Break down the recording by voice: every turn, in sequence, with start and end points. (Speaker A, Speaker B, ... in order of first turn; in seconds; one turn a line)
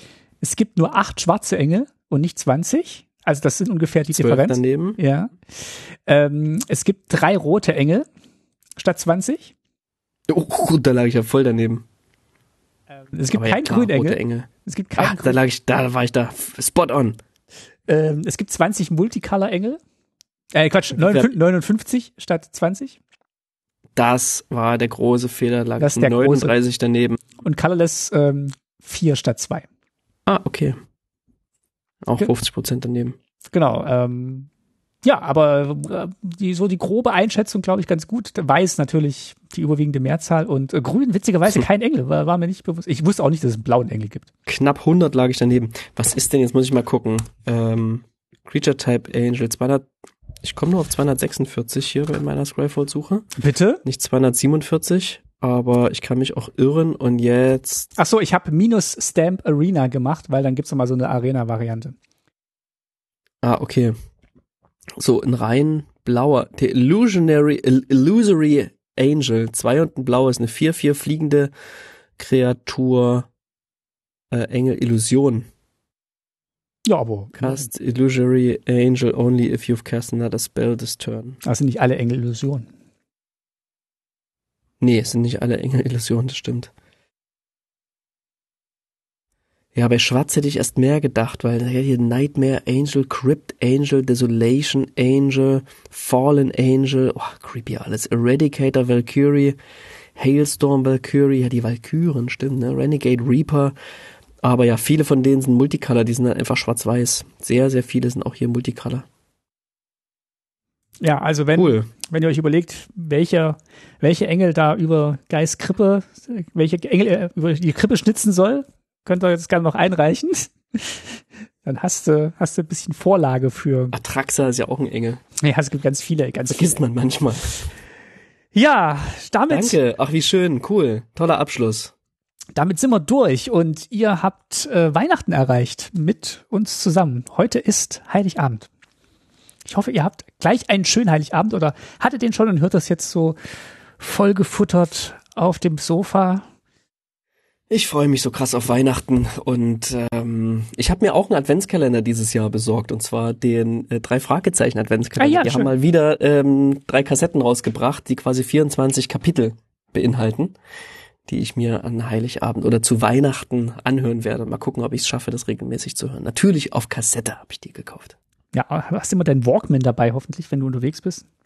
Speaker A: 0.4-8.1
Speaker B: 4.1-5.0
Speaker A: 8.8-9.5
Speaker B: 10.3-11.8
Speaker A: 13.0-15.4
Speaker B: 13.3-17.2
Speaker A: 17.9-19.8
Speaker A: 20.5-23.0
Speaker B: 20.9-21.3
Speaker B: 23.9-27.2
Speaker A: 25.8-26.5
Speaker A: 27.4-29.6
Speaker B: 30.2-30.8
Speaker B: 32.0-33.1
Speaker A: 33.5-34.5
Speaker A: 35.0-44.2
Speaker B: 44.5-49.9
Speaker B: 50.4-53.3
Speaker A: 53.4-53.8
Speaker B: 53.8-57.9
Speaker A: 58.0-61.9
Speaker B: 63.4-63.9
Speaker B: 65.0-71.5
Speaker B: 72.2-73.3
Speaker B: 74.3-75.5
Speaker A: 76.9-77.7
Speaker B: 77.4-81.4
Speaker A: 81.4-82.7
Speaker B: 84.8-86.7
Speaker B: 89.7-99.6
Speaker B: 100.2-103.7
Speaker B: 104.4-109.0
Speaker A: 111.0-123.9
Speaker B: 111.5-111.9
Speaker B: 123.9-125.2
Speaker A: 125.4-126.8
Speaker B: 126.5-127.7
Speaker A: 128.5-129.8
Speaker B: 129.5-131.9
Speaker A: 132.6-138.7
Speaker A: 139.6-143.3
Speaker A: 144.0-146.4
Speaker B: 147.7-160.5
Speaker A: 155.2-155.7
Speaker B: 161.2-168.2
Speaker A: 168.5-171.2